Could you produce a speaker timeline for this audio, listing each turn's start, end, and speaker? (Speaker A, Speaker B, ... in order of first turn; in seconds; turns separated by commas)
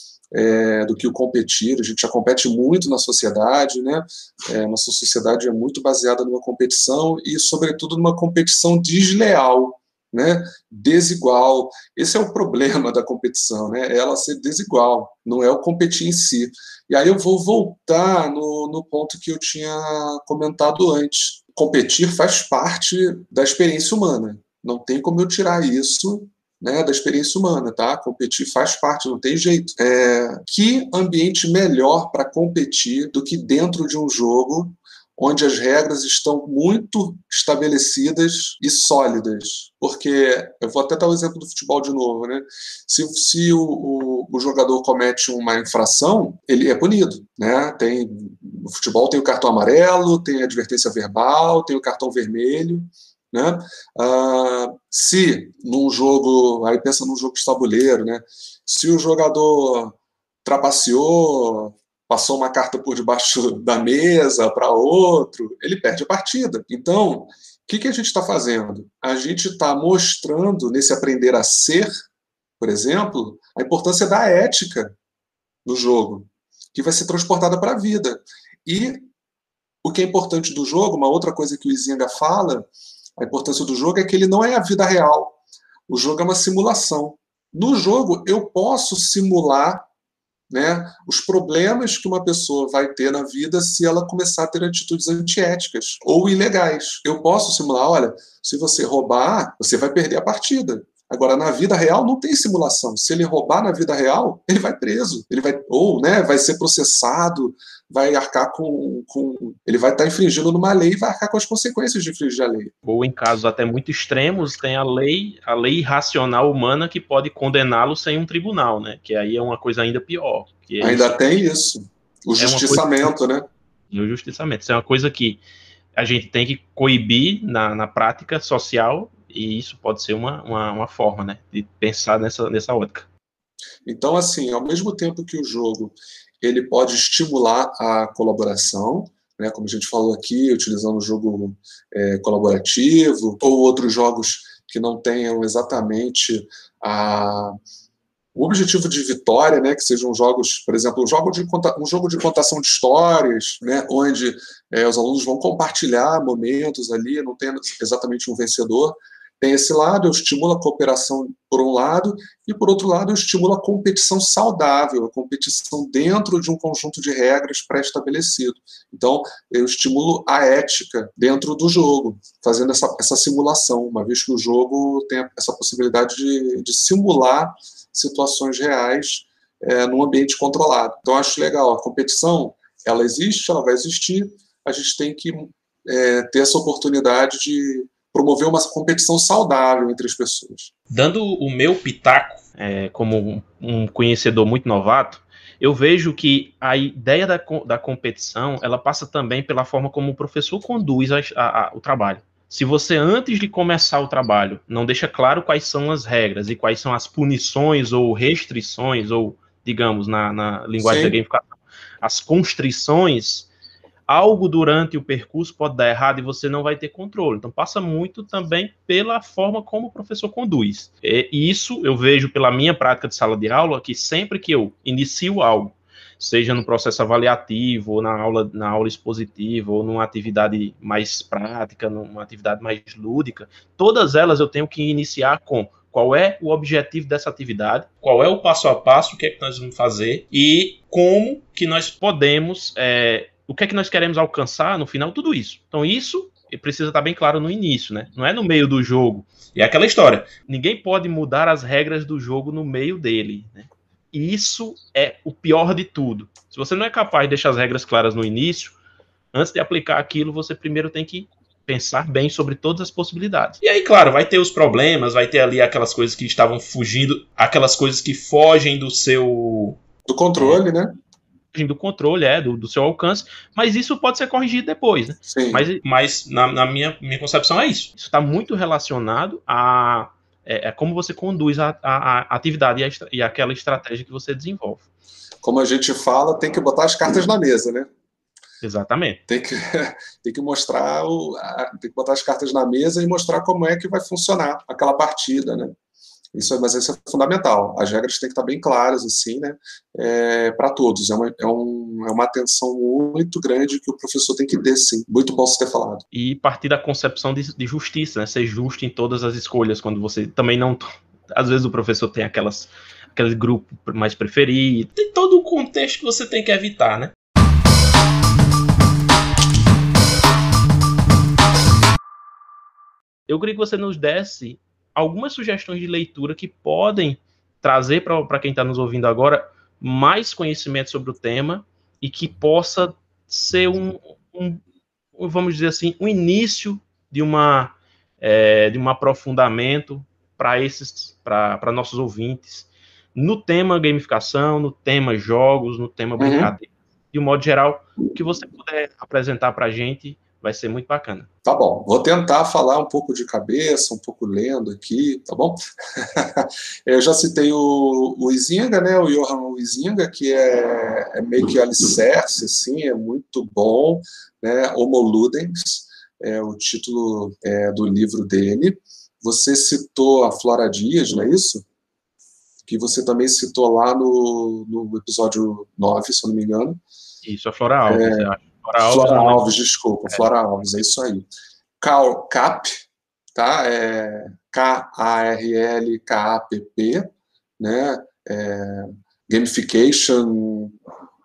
Speaker A: 0.3-71.9, Speaker A: 72.6-74.9, Speaker A: 75.6-79.1, Speaker A: 79.8-89.9, Speaker A: 90.5-112.7, Speaker B: 112.8-121.1, Speaker A: 120.8-123.5, Speaker B: 122.4-123.1, Speaker B: 123.9-125.4, Speaker B: 126.0-133.1, Speaker A: 133.8-147.6, Speaker A: 148.3-190.7, Speaker B: 190.9-213.5, Speaker A: 210.8-211.2, Speaker B: 214.1-258.8, Speaker B: 259.3-269.8, Speaker A: 270.1-270.9, Speaker B: 270.4-270.6, Speaker B: 271.5-284.9, Speaker A: 275.2-275.6, Speaker A: 285.4-287.9, Speaker B: 288.6-289.2, Speaker A: 289.3-295.7, Speaker A: 296.3-306.0, Speaker B: 306.1-317.1, Speaker B: 323.3-334.6, Speaker B: 335.2-351.3, Speaker A: 346.2-346.5, Speaker A: 351.4-371.6, Speaker A: 372.7-376.8, Speaker B: 377.2-379.5, Speaker A: 377.9-381.3, Speaker A: 381.8-390.8